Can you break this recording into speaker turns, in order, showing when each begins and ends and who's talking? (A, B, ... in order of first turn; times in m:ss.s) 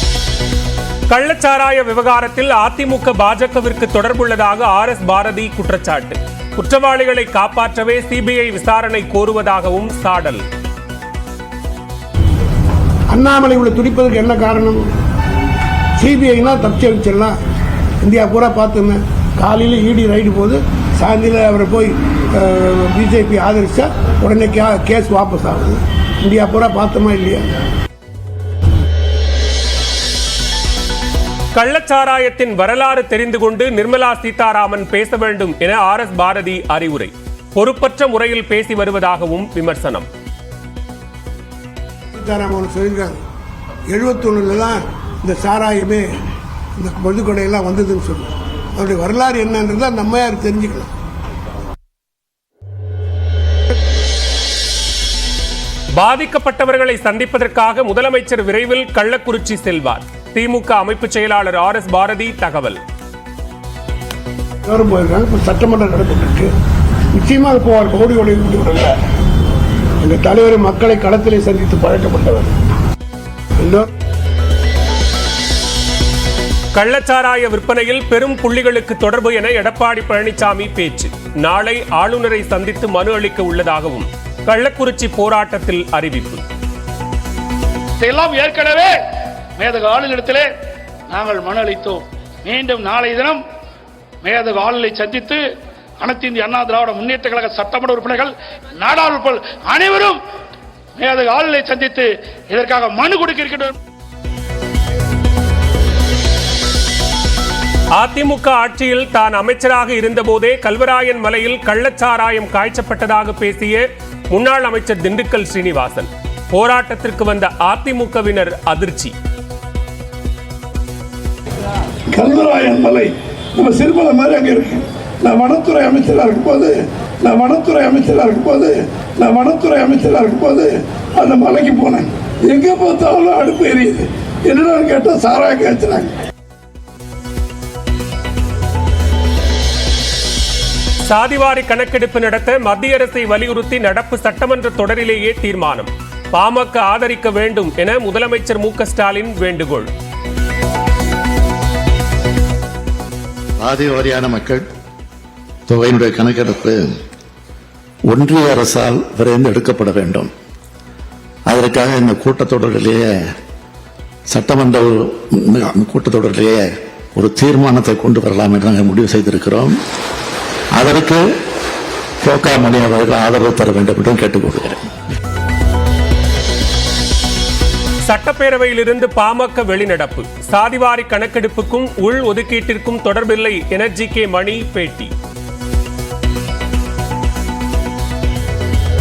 0:01.1-0:10.4 A
0:13.1-0:14.8 B
0:16.0-0:17.4 B
0:18.0-0:27.5 B
0:31.5-0:40.1 A
0:42.1-0:43.2 B
0:43.9-0:46.1 B
0:46.8-0:50.9 B
0:56.0-1:02.8 A
1:04.7-1:06.5 B
1:07.2-1:09.0 B
1:10.0-1:12.5 B
1:13.6-1:13.9 B
1:16.8-1:26.4 A
1:28.0-1:28.9 C
1:29.6-1:30.5 C
1:31.1-1:33.4 C
1:34.2-1:35.4 C
1:36.0-1:40.2 C
1:41.0-1:43.8 C
1:48.0-1:59.1 A
2:02.1-2:16.1 D
2:21.0-2:29.9 A
2:33.6-2:34.6 E
2:35.7-2:36.8 E
2:38.1-2:40.3 E
2:41.5-2:43.1 E
2:44.3-2:49.8 E
2:50.8-2:51.2 E
2:52.2-2:54.8 E
2:58.1-3:05.1 A